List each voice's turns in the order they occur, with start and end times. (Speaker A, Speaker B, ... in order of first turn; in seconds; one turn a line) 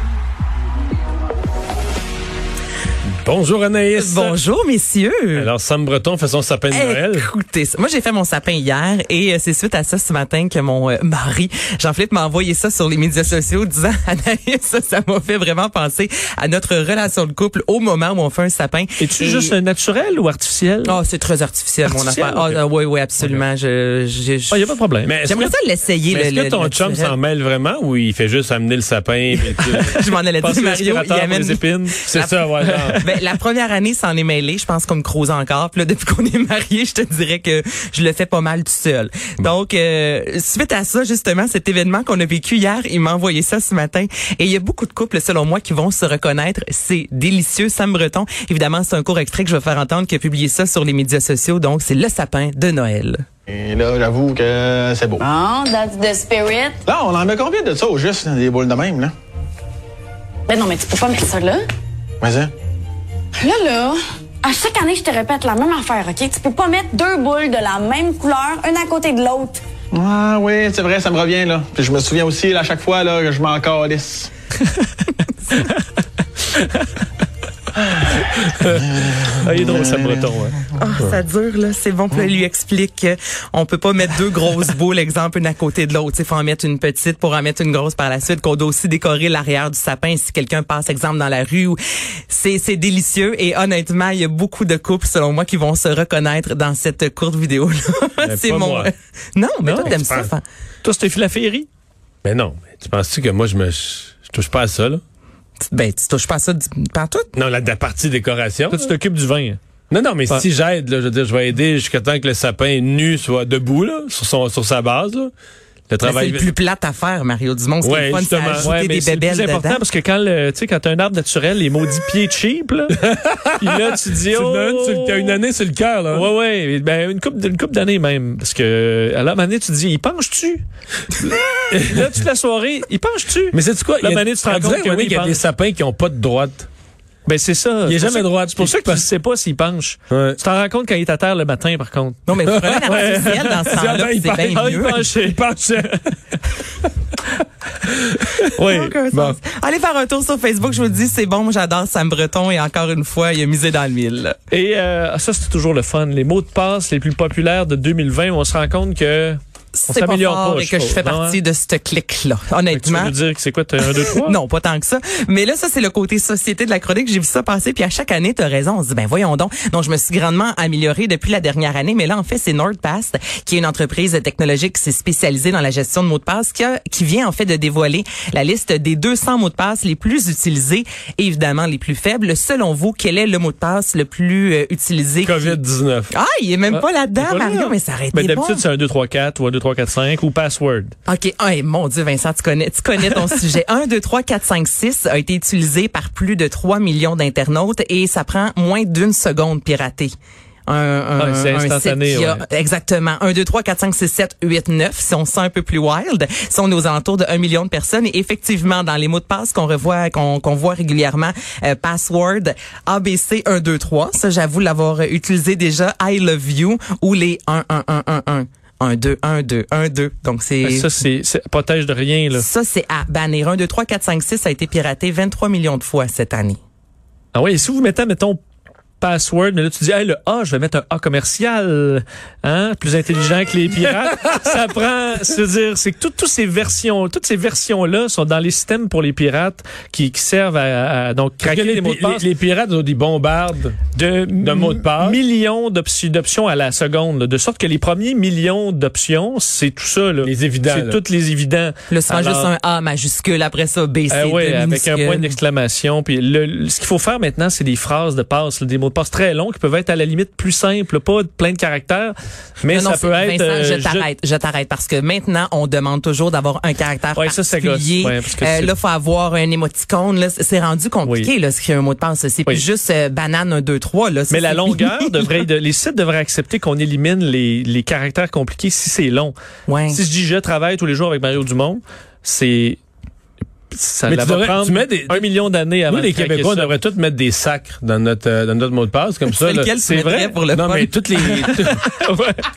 Speaker A: 3.2-4.4
Speaker B: 4.0-5.5
Speaker A: 5.3-7.3
Speaker B: 6.7-19.6
Speaker C: 19.0-21.0
Speaker B: 20.8-24.7
Speaker C: 21.9-22.6
Speaker C: 24.5-25.1
Speaker A: 25.0-25.5
Speaker B: 25.2-27.1
Speaker A: 26.1-29.9
Speaker B: 29.6-32.4
Speaker C: 29.7-32.1
Speaker A: 32.1-33.0
Speaker C: 32.6-33.0
Speaker B: 33.0-53.2
Speaker D: 53.5-55.3
Speaker E: 55.8-56.7
Speaker D: 56.8-59.1
Speaker E: 60.5-61.6
Speaker D: 62.2-62.5
Speaker E: 63.5-69.6
Speaker D: 69.9-74.3
Speaker C: 76.5-76.8
Speaker C: 78.3-80.6
Speaker D: 79.0-80.2
Speaker B: 80.8-100.4
Speaker A: 98.2-98.9
Speaker C: 99.6-100.0
Speaker A: 99.8-100.3
Speaker C: 100.8-101.7
Speaker A: 102.2-105.0
Speaker B: 105.7-107.3
Speaker A: 107.3-108.9
Speaker C: 108.7-109.6
Speaker A: 109.9-115.3
Speaker A: 115.9-116.5
Speaker B: 116.0-119.8
Speaker A: 117.8-118.7
Speaker C: 118.6-122.9
Speaker A: 123.0-126.3
Speaker C: 123.6-125.4
Speaker C: 126.1-135.4
Speaker A: 131.7-132.2
Speaker A: 133.5-136.7
Speaker C: 137.2-145.9
Speaker A: 137.8-139.1
Speaker A: 140.1-140.4
Speaker B: 142.3-145.1
Speaker A: 142.4-146.0
Speaker A: 147.8-148.5
Speaker C: 148.5-149.0
Speaker B: 148.6-154.4
Speaker A: 149.1-149.4
Speaker C: 154.5-161.4
Speaker B: 159.7-163.1
Speaker C: 162.7-164.3
Speaker B: 163.8-185.6
Speaker A: 185.2-186.1
Speaker B: 186.1-188.6
Speaker C: 186.7-190.9
Speaker B: 191.1-200.1
Speaker B: 200.7-220.9
Speaker C: 201.2-202.4
Speaker C: 220.6-222.4
Speaker B: 222.3-226.6
Speaker C: 227.3-228.4
Speaker C: 229.0-242.2
Speaker A: 241.4-243.8
Speaker C: 243.9-252.5
Speaker A: 244.4-245.2
Speaker A: 250.2-251.0
Speaker B: 251.9-255.3
Speaker C: 254.1-264.1
Speaker B: 262.7-275.4
Speaker C: 267.1-268.7
Speaker C: 271.0-271.3
Speaker C: 274.3-279.3
Speaker B: 279.7-280.0
Speaker C: 279.9-282.8
Speaker C: 283.7-286.7
Speaker A: 284.1-285.3
Speaker A: 285.9-289.7
Speaker B: 289.3-291.8
Speaker C: 289.8-290.4
Speaker A: 290.5-291.8
Speaker C: 291.3-292.4